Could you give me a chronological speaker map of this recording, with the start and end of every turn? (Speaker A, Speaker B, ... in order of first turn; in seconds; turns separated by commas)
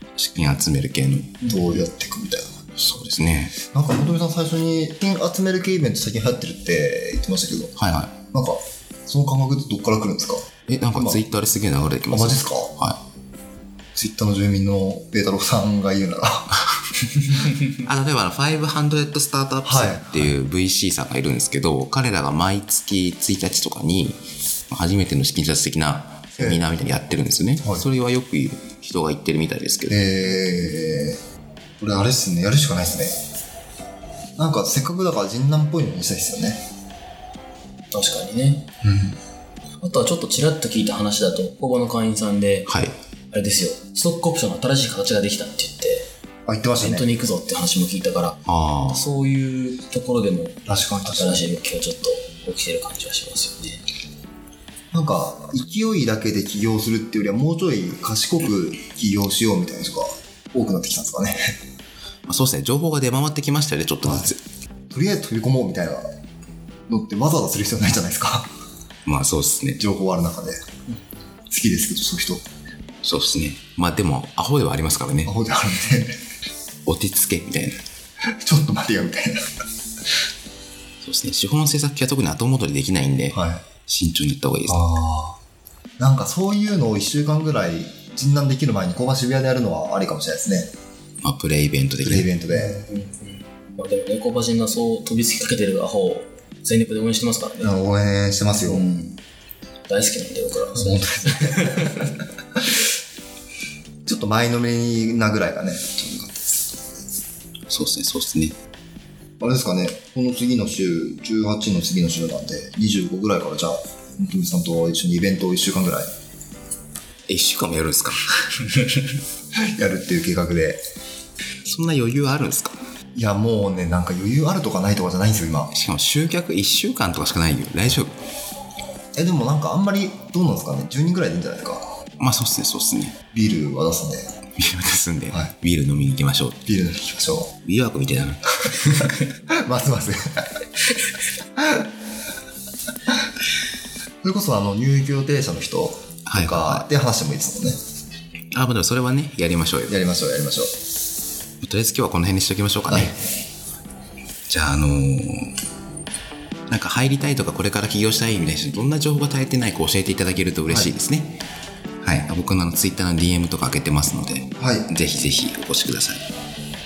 Speaker A: 0.2-1.5, Speaker B: 1.4-2.6, Speaker A: 2.8-3.6, Speaker B: 3.6-7.7, Speaker A: 7.8-8.1, Speaker B: 8.3-11.2, Speaker A: 10.7-13.0, Speaker B: 12.1-12.7, Speaker B: 13.9-16.7, Speaker A: 17.6-30.0, Speaker B: 19.6-20.4, Speaker B: 26.4-26.6, Speaker B: 29.9-31.2, Speaker B: 31.8-33.1, Speaker B: 34.4-36.6, Speaker C: 37.9-38.7, Speaker B: 38.8-39.1, Speaker C: 39.8-42.7, Speaker A: 42.7-42.9, Speaker C: 43.3-46.0, Speaker B: 46.5-47.0, Speaker C: 46.8-53.8, Speaker A: 48.5-49.1, Speaker B: 50.6-51.4, Speaker B: 54.9-61.4, Speaker A: 62.3-64.4, Speaker B: 64.0-64.3, Speaker B: 64.9-66.0, Speaker B: 66.9-68.5, Speaker A: 69.0-69.8, Speaker B: 69.8-70.6, Speaker B: 71.5-72.4, Speaker A: 73.0-75.3, Speaker B: 75.2-76.1, Speaker A: 76.8-77.8, Speaker B: 78.4-79.4, Speaker A: 81.0-84.8, Speaker B: 83.3-83.6, Speaker B: 84.7-85.4, Speaker B: 86.0-90.7, Speaker A: 91.2-92.3, Speaker B: 92.0-92.8, Speaker C: 92.5-97.7, Speaker B: 97.6-98.8, Speaker C: 98.6-99.2, Speaker C: 99.9-102.1, Speaker B: 100.7-102.1, Speaker B: 104.0-107.1, Speaker A: 107.7-108.5, Speaker B: 109.4-116.1, Speaker A: 117.3-118.5, Speaker B: 119.7-120.8, Speaker A: 121.7-122.8, Speaker B: 123.1-125.7, Speaker A: 125.7-128.1, Speaker B: 129.2-131.8, Speaker A: 132.2-133.2, Speaker B: 133.3-134.3, Speaker A: 134.6-136.6, Speaker B: 136.7-137.5, Speaker A: 137.6-138.9, Speaker B: 139.5-140.4, Speaker B: 141.6-141.9, Speaker B: 144.2-147.8, Speaker A: 146.2-146.9, Speaker A: 148.5-149.9, Speaker B: 149.9-150.7, Speaker A: 151.6-153.2, Speaker B: 152.9-153.1, Speaker A: 154.5-155.5, Speaker A: 156.7-161.3, Speaker B: 160.7-160.9, Speaker A: 162.0-166.2, Speaker B: 164.6-164.9